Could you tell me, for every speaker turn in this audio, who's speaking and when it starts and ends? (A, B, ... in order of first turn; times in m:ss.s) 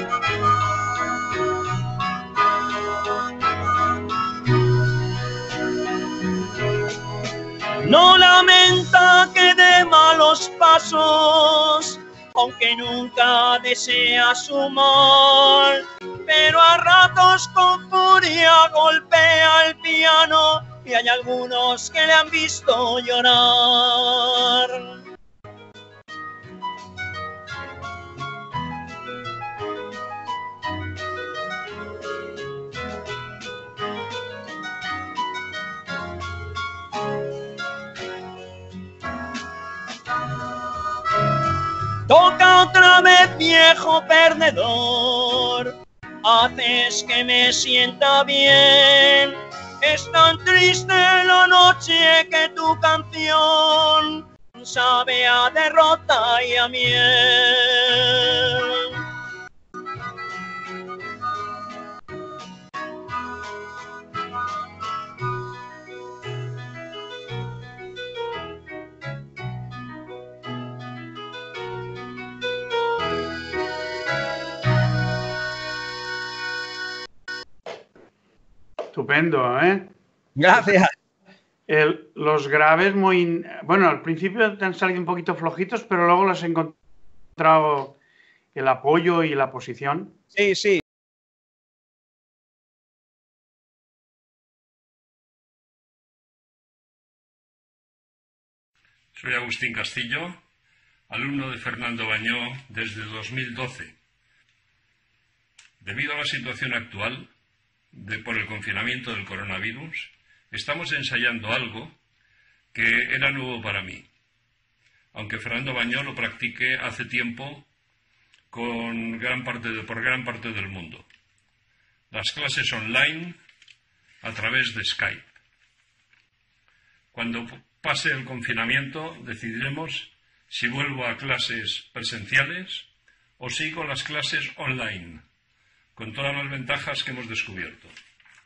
0:07.8-0:24.9 A
0:42.1-0:58.9 A
1:18.9-1:19.9 B
1:20.4-1:20.9 A
1:21.7-1:26.7 B
1:27.4-1:27.9 B
1:28.6-1:30.1 B
1:30.3-1:30.8 A
1:39.1-1:40.4 C
1:41.1-1:43.9 C
1:45.8-1:47.3 C
1:47.9-1:52.0 C
1:52.7-1:54.1 C
1:55.1-1:57.7 C
1:58.5-2:01.0 C
2:02.1-2:03.4 C
2:04.2-2:05.2 C
2:07.1-2:12.9 C
2:13.4-2:15.2 C
2:16.0-2:17.9 C